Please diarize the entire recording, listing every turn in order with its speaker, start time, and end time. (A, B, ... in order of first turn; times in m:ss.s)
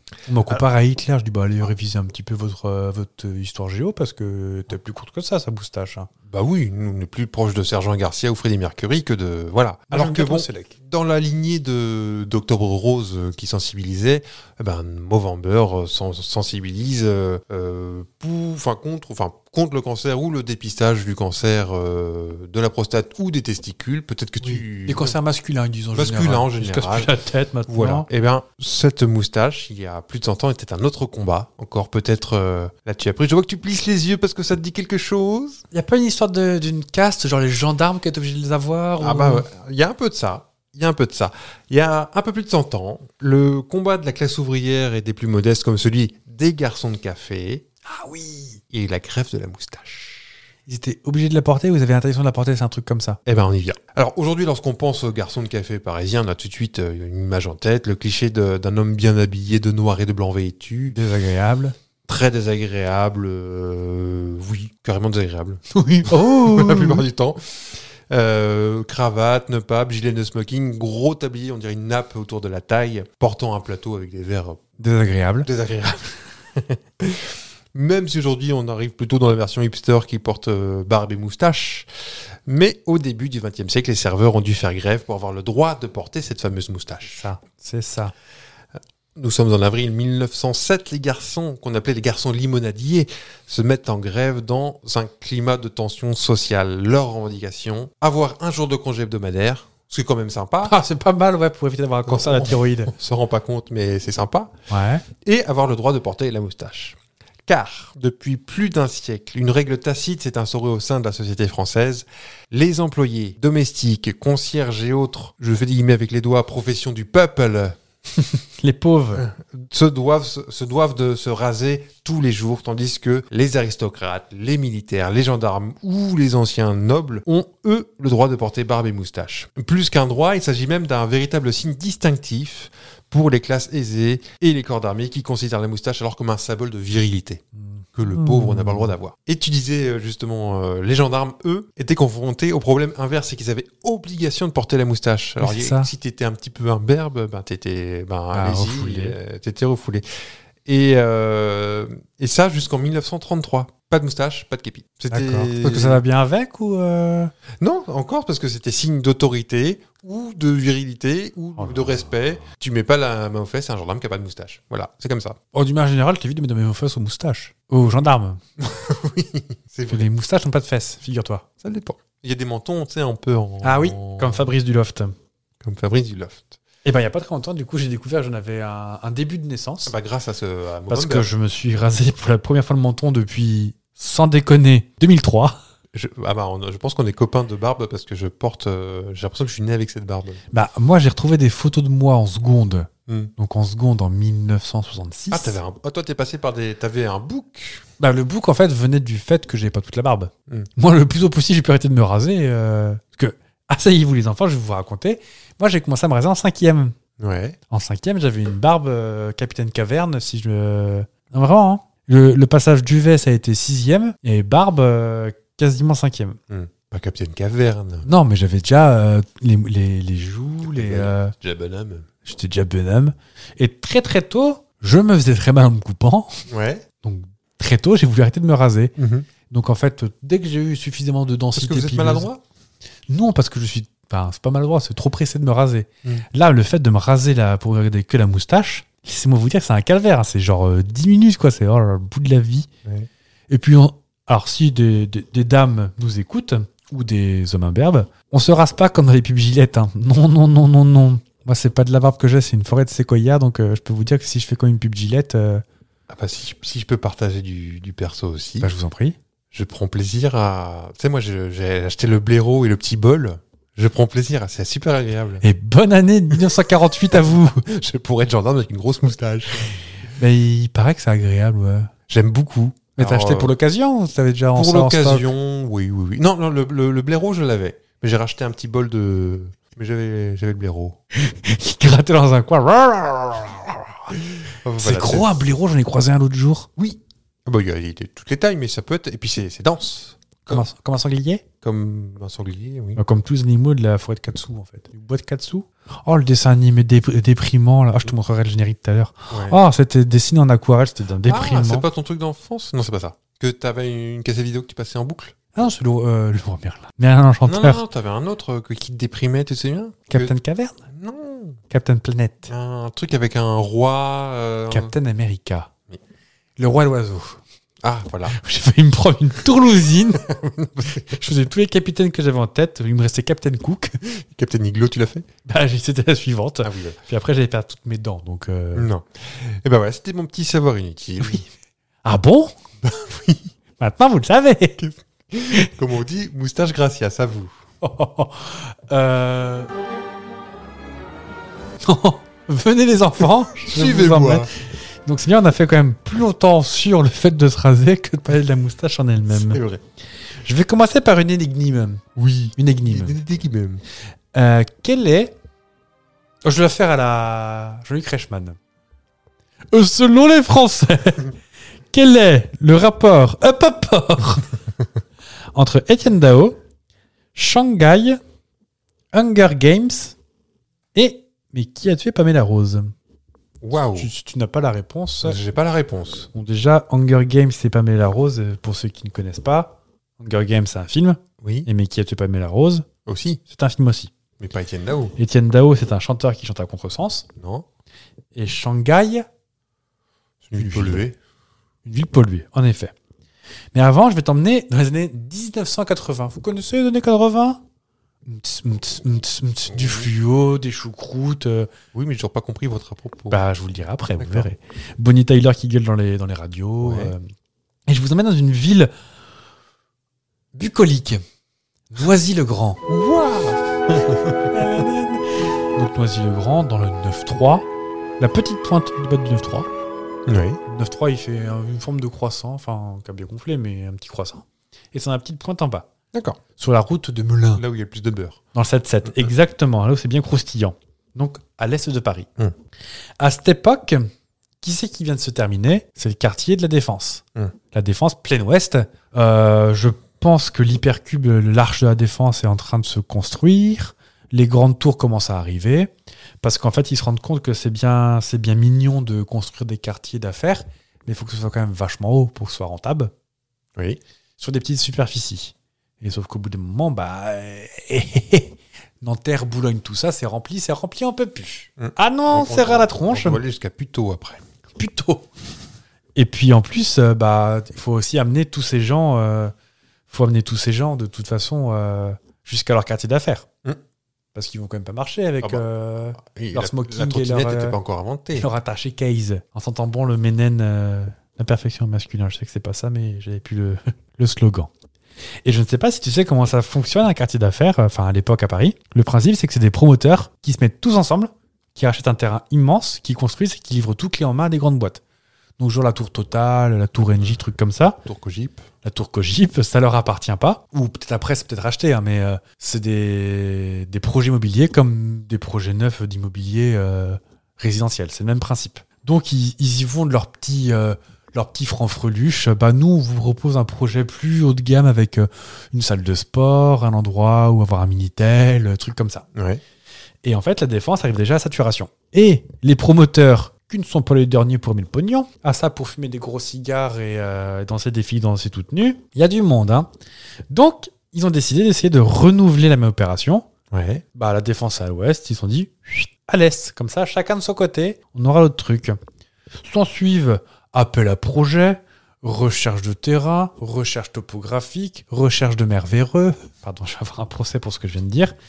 0:00.3-0:06.1 A
0:06.3-0:25.1 B
0:09.9-0:10.7 A
0:24.4-0:28.1 A
0:26.0-0:27.1 B
0:27.7-0:35.6 B
0:35.7-0:39.5 A
0:39.0-0:47.6 B
0:47.9-0:48.6 A
0:48.7-0:50.4 B
0:50.7-0:53.2 A
0:53.2-1:01.0 B
1:00.9-1:01.8 A
1:02.1-1:14.6 B
1:05.7-1:07.1 A
1:14.8-1:15.5 A
1:15.4-1:21.9 B
1:22.5-1:27.2 B
1:27.0-1:28.1 A
1:29.2-1:40.8 B
1:40.6-1:42.9 A
1:42.1-1:44.5 B
1:44.7-1:45.0 A
1:45.2-1:57.8 B
1:58.2-1:59.3 A
1:59.2-2:17.4 B
2:17.6-2:18.9 A
2:18.0-2:30.0 B
2:25.4-2:25.9 A
2:28.3-2:29.2 A
2:30.6-2:36.0 B
2:35.1-2:37.3 A
2:37.6-2:45.4 B
2:45.5-2:48.4 A
2:48.6-2:50.0 B
2:49.9-2:51.5 A
2:51.6-2:54.5 B
2:53.6-2:55.1 A
2:55.6-2:56.6 B
2:56.8-2:59.9 A
2:59.9-3:01.3 B
3:00.9-3:05.6 A
3:05.9-3:10.4 B
3:10.5-3:15.6 A
3:13.1-3:13.3 B
3:15.3-3:17.8 B
3:18.0-3:27.0 A
3:27.2-3:27.6 B
3:27.7-3:36.4 A
3:36.5-3:38.1 B
3:38.0-3:41.3 A
3:40.6-3:42.1 B
3:42.2-3:46.4 A
3:46.5-3:46.8 B
3:47.0-3:49.0 A
3:49.0-3:49.3 B
3:49.5-3:52.3 A
3:51.6-3:52.4 B
3:53.1-4:02.7 A
4:03.5-4:15.6 A
4:16.1-4:18.7 B
4:18.6-4:19.2 A
4:19.5-4:25.4 B
4:25.4-4:27.6 A
4:27.1-4:29.8 B
4:30.2-4:31.9 A
4:32.1-4:33.5 B
4:33.0-4:35.3 A
4:34.6-4:41.0 B
4:41.1-4:44.0 A
4:44.6-4:45.4 B
4:44.8-4:46.7 A
4:46.8-4:50.6 B
4:50.5-4:51.4 A
4:51.6-4:53.0 B
4:53.0-5:01.9 A
4:59.3-4:59.6 B
5:01.2-5:05.4 B
5:05.5-5:07.8 A
5:07.5-5:10.3 B
5:10.1-5:10.8 A
5:10.9-5:11.6 B
5:11.7-5:12.5 A
5:12.5-5:14.9 B
5:14.7-5:15.7 A
5:16.6-5:17.4 A
5:17.8-5:18.4 B
5:18.3-5:24.0 A
5:20.1-5:21.2 B
5:24.0-5:25.3 B
5:25.5-5:28.9 A
5:26.6-5:27.0 B
5:28.8-5:31.4 B
5:31.2-5:31.5 A
5:32.0-5:32.5 A
5:32.8-5:33.5 B
5:33.8-5:34.8 A
5:34.8-5:37.5 B
5:35.4-5:35.7 A
5:37.8-5:39.7 A
5:41.8-5:49.6 A
5:43.2-5:44.5 B
5:49.3-5:49.8 B
5:50.4-5:52.0 A
5:52.2-5:53.8 B
5:52.6-5:53.2 A
5:54.3-5:55.3 A
5:56.4-5:58.6 A
5:59.7-6:01.4 A
6:01.9-6:04.5 A
6:05.5-6:06.6 A
6:07.4-6:08.2 A
6:09.1-6:10.2 A
6:11.0-6:12.9 A
6:13.6-6:14.1 B
6:13.9-6:15.4 A
6:15.2-6:16.3 B
6:16.3-6:22.9 A
6:21.4-6:21.7 B
6:23.1-6:23.4 B
6:23.5-6:24.1 A
6:24.4-6:25.1 B
6:25.2-6:27.2 A
6:27.4-6:27.6 B
6:28.4-6:29.2 A
6:30.4-6:31.2 B
6:30.5-6:31.1 A
6:31.9-6:32.9 A
6:33.7-6:37.6 A
6:38.2-6:41.7 A
6:39.7-6:40.1 B
6:41.9-6:43.4 B
6:43.3-6:47.2 A
6:44.2-6:44.5 B
6:46.8-6:47.1 B
6:47.9-6:48.9 A
6:50.5-6:51.2 A
6:51.9-6:52.8 A
6:52.9-6:54.6 B
6:54.5-6:57.7 A
6:58.2-6:59.7 A
7:00.3-7:00.6 B
7:00.7-7:05.9 A
7:06.1-7:06.4 B
7:06.6-7:07.6 A
7:07.6-7:08.4 B
7:08.5-7:12.3 A
7:13.2-7:14.1 A
7:14.6-7:25.9 A
7:26.4-7:33.1 A
7:34.4-7:43.4 A
7:41.8-7:44.4 B
7:44.8-7:45.3 A
7:46.2-7:49.5 A
7:50.1-7:53.5 A
7:54.3-7:57.8 A
7:56.2-7:58.5 B
7:58.3-8:04.7 A
8:05.4-8:15.0 A
8:15.6-8:18.0 A
8:18.0-8:18.6 B
8:18.8-8:39.3 A
8:39.3-8:39.6 B
8:40.2-8:49.9 A
8:50.5-8:53.5 A
8:53.7-8:54.0 B
8:54.1-8:59.0 A
8:59.6-9:08.3 A